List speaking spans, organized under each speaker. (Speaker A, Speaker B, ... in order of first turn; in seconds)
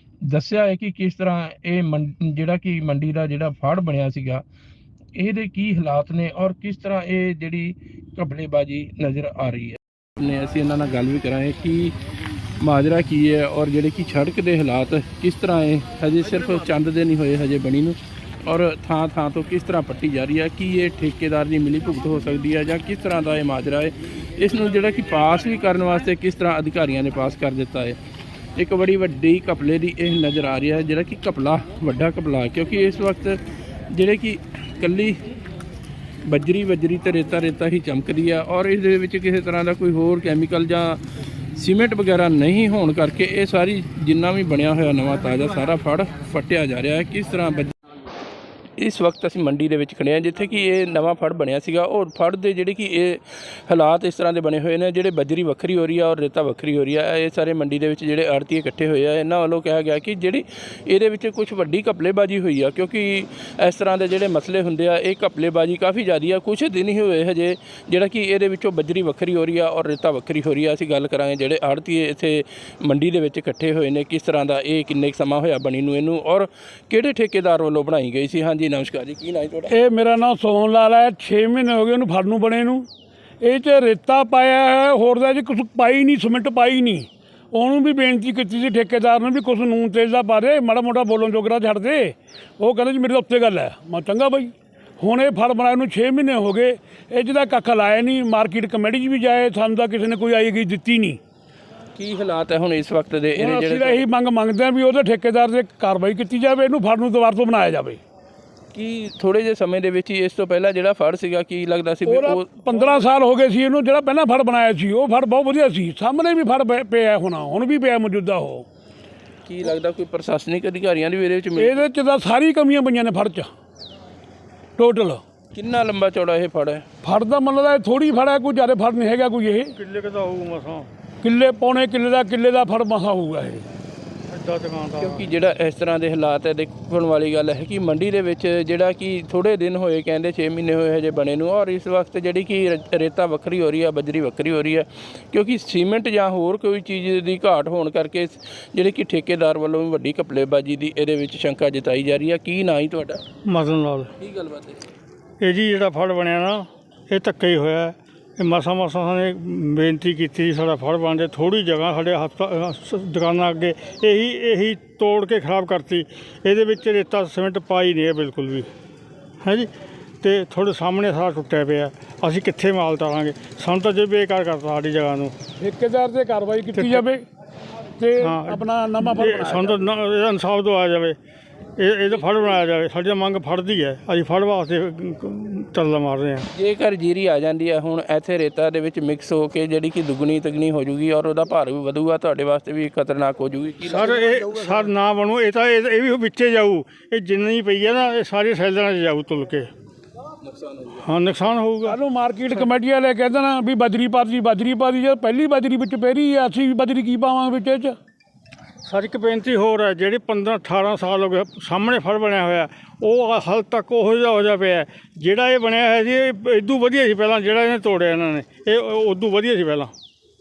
Speaker A: 0.3-4.4, 5.2-11.9, 12.6-28.0, 28.6-33.4, 33.9-35.2, 36.3-41.0, 41.5-47.7, 48.8-79.7, 102.0-104.0, 108.7-112.5, 119.5-121.8, 125.5-126.8, 135.0-153.2, 154.2-154.9, 186.5-194.6, 200.4-201.1
Speaker B: 79.7-82.9, 83.4-101.2, 103.4-108.0, 112.1-118.7, 121.6-123.5, 124.8-125.2, 127.0-129.7, 131.2-133.7, 175.6-177.2, 178.0-179.8, 201.8-208.0
Speaker C: 129.8-130.9, 134.3-135.2, 153.4-154.1, 155.4-168.7, 169.4-169.7, 170.2-175.3, 176.8-177.0, 178.2-181.2, 181.8-186.5, 193.8-199.7, 201.0-202.0, 208.8-219.9